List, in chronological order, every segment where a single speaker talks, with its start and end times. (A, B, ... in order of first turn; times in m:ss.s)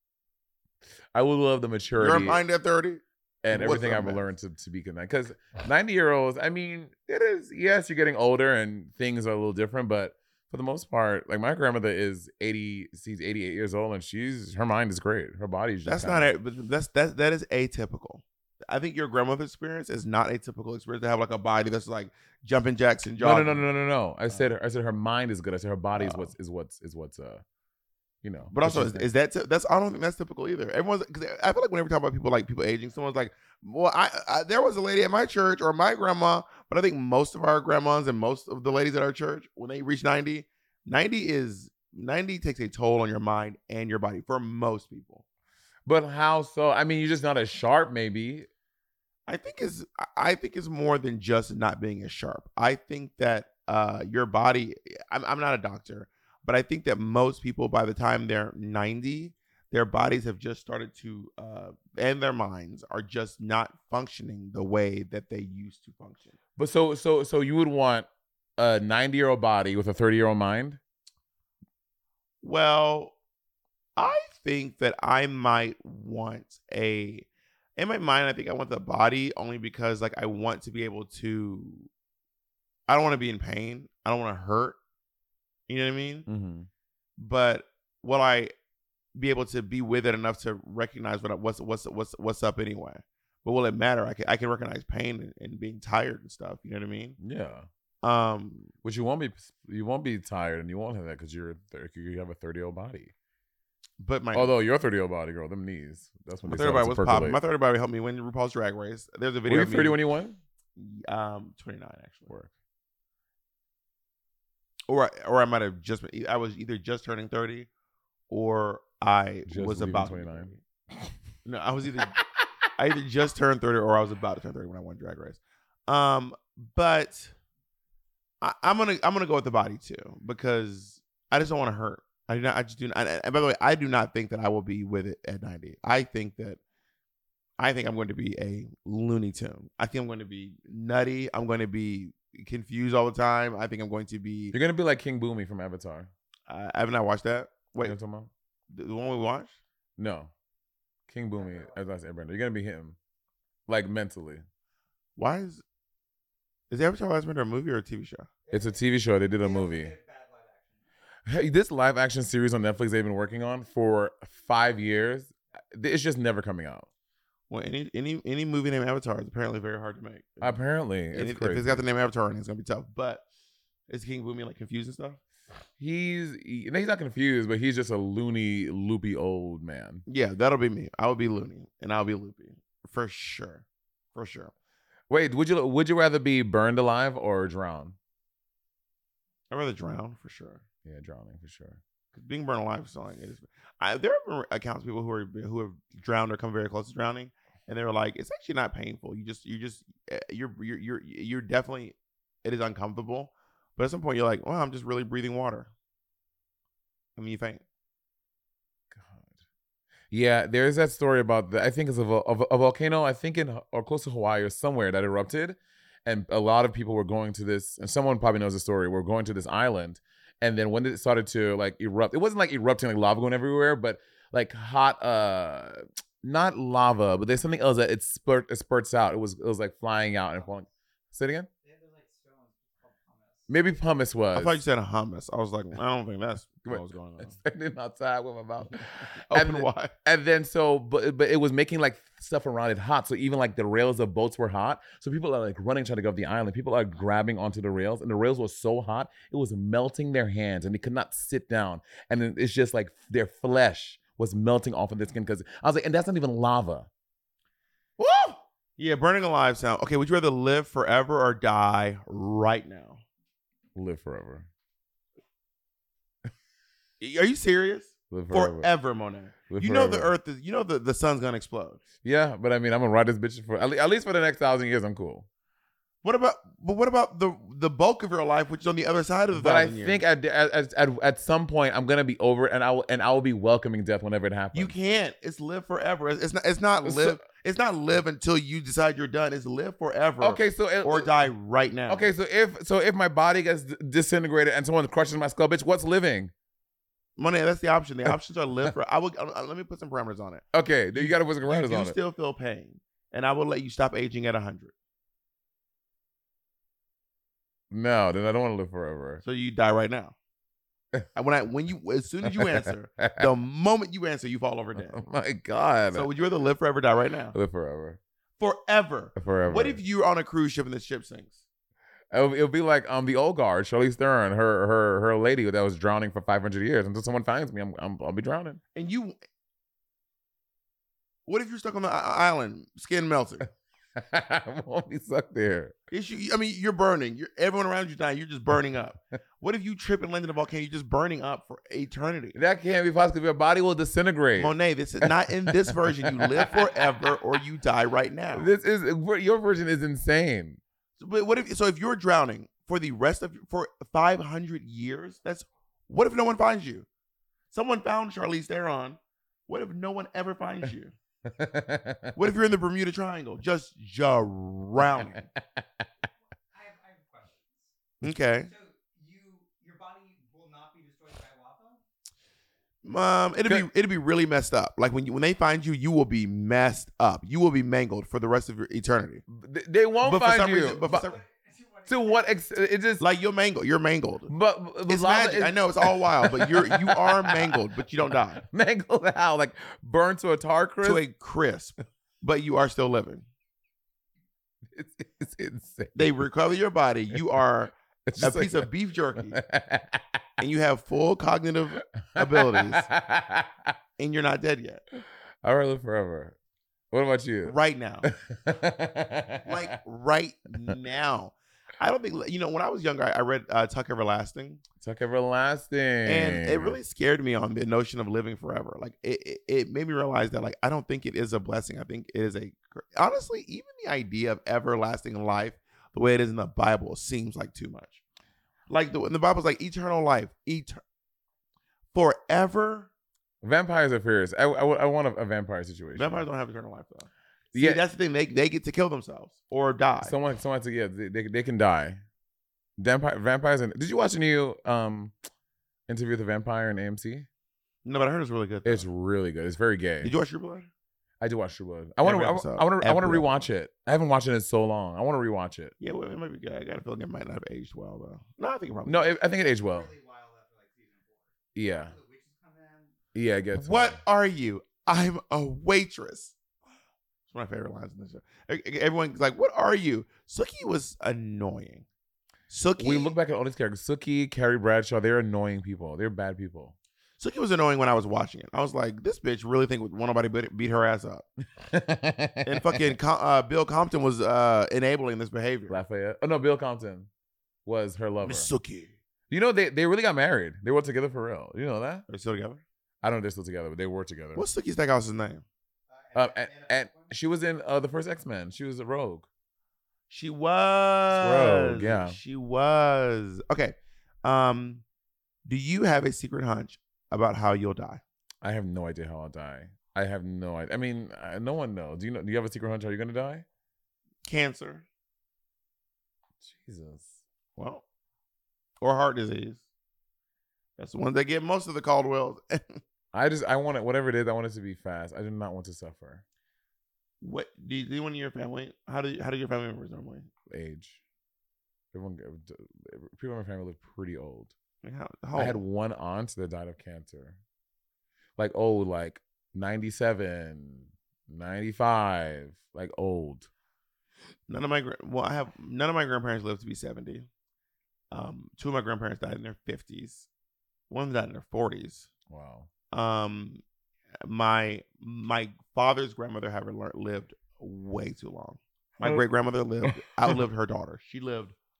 0:01.1-0:02.4 A
0:02.0-0:04.3 B
0:03.4-0:16.3 A
0:15.8-0:23.7 B
0:23.2-0:27.4 A
0:26.0-0:26.3 B
0:28.2-0:29.1 A
0:28.5-0:45.2 B
0:45.9-0:48.5 A
0:49.3-1:06.4 B
1:06.6-1:10.8 A
1:12.4-1:13.2 B
1:14.0-1:21.9 B
1:22.9-1:24.8 B
1:25.7-1:26.3 B
1:26.3-1:26.7 A
1:27.2-1:28.5 B
1:29.2-1:37.2 B
1:37.2-1:37.7 A
1:38.0-1:38.7 B
1:38.8-1:43.1 A
1:44.0-1:44.5 B
1:44.3-1:47.4 A
1:46.5-1:50.0 B
1:49.5-1:50.4 A
1:50.8-1:52.3 B
1:54.9-1:57.7 B
1:58.3-2:00.6 B
1:59.5-2:00.5 A
2:01.4-2:02.2 B
2:02.8-2:07.3 B
2:08.4-2:16.6 B
2:17.6-2:24.6 B
2:24.5-2:26.1 A
2:26.5-2:28.0 B
2:27.8-2:28.3 A
2:28.7-2:29.6 B
2:30.0-2:30.3 A
2:31.1-2:33.0 A
2:31.4-2:31.9 C
2:33.7-2:34.4 A
2:35.2-2:35.6 B
2:36.7-2:38.3 B
2:38.5-2:40.8 C
2:38.5-2:39.9 A
2:41.3-2:46.9 A
2:47.5-2:50.6 B
2:50.4-2:51.8 A
2:51.1-2:53.2 B
2:53.9-2:55.2 B
2:55.8-3:00.0 A
3:00.1-3:04.5 B
3:05.1-3:08.0 A
3:09.5-3:10.6 B
3:10.8-3:11.8 A
3:12.1-3:25.7 B
3:27.2-3:27.6 B
3:28.9-3:29.4 A
3:30.1-3:51.5 A
3:50.4-3:50.7 C
3:51.6-3:53.5 C
3:53.5-3:54.6 A
3:54.3-3:57.4 B
3:56.7-4:16.9 A
3:59.2-3:59.9 B
4:18.0-4:18.3 A
4:18.8-4:23.0 B
4:23.8-4:24.5 A
4:27.0-4:31.8 B
4:28.1-4:28.7 A
4:29.5-4:30.1 A
4:32.0-4:35.3 A
4:36.0-4:40.0 B
4:39.3-4:44.7 A
4:44.5-4:52.1 B
4:46.8-4:47.2 A
4:50.2-4:51.1 A
4:51.9-4:56.3 A
4:57.2-5:04.7 B
5:00.5-5:02.0 A
5:07.7-5:09.2 A
5:09.2-5:10.2 B
5:11.2-5:15.0 B
5:12.2-5:13.3 A
5:14.8-5:16.1 A
5:15.9-5:17.4 B
5:17.3-5:18.0 A
5:18.4-5:21.4 B
5:19.2-5:19.8 A
5:22.1-5:28.6 A
5:28.7-5:29.2 B
5:31.3-5:33.5 B
5:34.0-5:35.8 A
5:35.9-5:42.4 B
5:42.4-5:47.1 A
5:44.4-5:48.5 B
5:48.3-5:50.6 A
5:51.0-5:56.9 B
5:57.5-6:00.9 B
6:01.2-6:02.2 A
6:02.2-6:05.3 B
6:06.5-6:07.8 C
6:08.0-6:08.5 B
6:08.4-6:11.8 C
6:12.8-6:19.2 B
6:19.3-6:21.1 A
6:20.0-6:21.2 B
6:20.8-6:22.4 C
6:21.9-6:23.0 A
6:23.0-6:24.3 B
6:24.3-6:27.6 A
6:24.9-6:28.4 B
6:28.4-6:31.0 A
6:30.8-6:33.3 B
6:34.7-6:36.2 A
6:36.0-6:39.4 B
6:38.1-6:40.2 A
6:40.4-6:42.9 B
6:42.2-6:43.7 A
6:44.0-6:44.8 B
6:45.4-6:46.4 A
6:46.9-6:49.7 A
6:47.4-6:48.1 B
6:49.4-6:54.6 B
6:54.8-6:56.8 A
6:56.1-7:08.0 B
7:08.7-7:10.8 B
7:11.9-7:12.9 B
7:13.4-7:16.3 A
7:16.0-7:20.2 B
7:17.5-7:17.8 A
7:20.0-7:22.0 A
7:22.8-7:25.2 A
7:25.9-7:27.3 A
7:27.8-7:28.9 B
7:28.6-7:30.1 A
7:30.0-7:30.7 B
7:31.2-7:35.7 A
7:32.0-7:33.5 B
7:35.8-7:39.1 B
7:38.9-7:39.9 A
7:39.4-7:43.0 C
7:41.6-7:41.9 A
7:43.2-7:44.0 A
7:43.6-7:46.4 B
7:47.3-7:51.9 B
7:52.5-7:53.2 B
7:52.8-7:56.8 A
7:57.2-8:01.2 B
8:01.6-8:02.9 A
8:02.4-8:05.8 B
8:05.7-8:07.1 A
8:07.7-8:08.5 A
8:08.2-8:08.9 B
8:09.3-8:12.0 A
8:12.1-8:12.6 B
8:13.0-8:14.4 A
8:14.4-8:15.4 B
8:15.9-8:17.2 C
8:16.2-8:19.3 A
8:20.1-8:24.8 B
8:21.1-8:22.2 A
8:25.5-8:28.0 B
8:28.4-8:33.4 A
8:34.3-8:34.9 B
8:36.4-8:37.2 A
8:37.6-8:37.8 B
8:38.8-8:39.6 B
8:40.8-8:42.8 B
8:43.1-8:46.2 A
8:47.2-8:50.3 B
8:50.5-8:51.0 A
8:51.9-8:54.5 A
8:54.8-8:55.6 B
8:55.4-8:57.4 A
8:58.4-9:03.5 A
9:04.5-9:07.3 B
9:08.1-9:10.3 B
9:10.9-9:12.1 B
9:12.3-9:12.7 A
9:12.9-9:13.6 B
9:14.2-9:21.6 B
9:19.9-9:20.4 A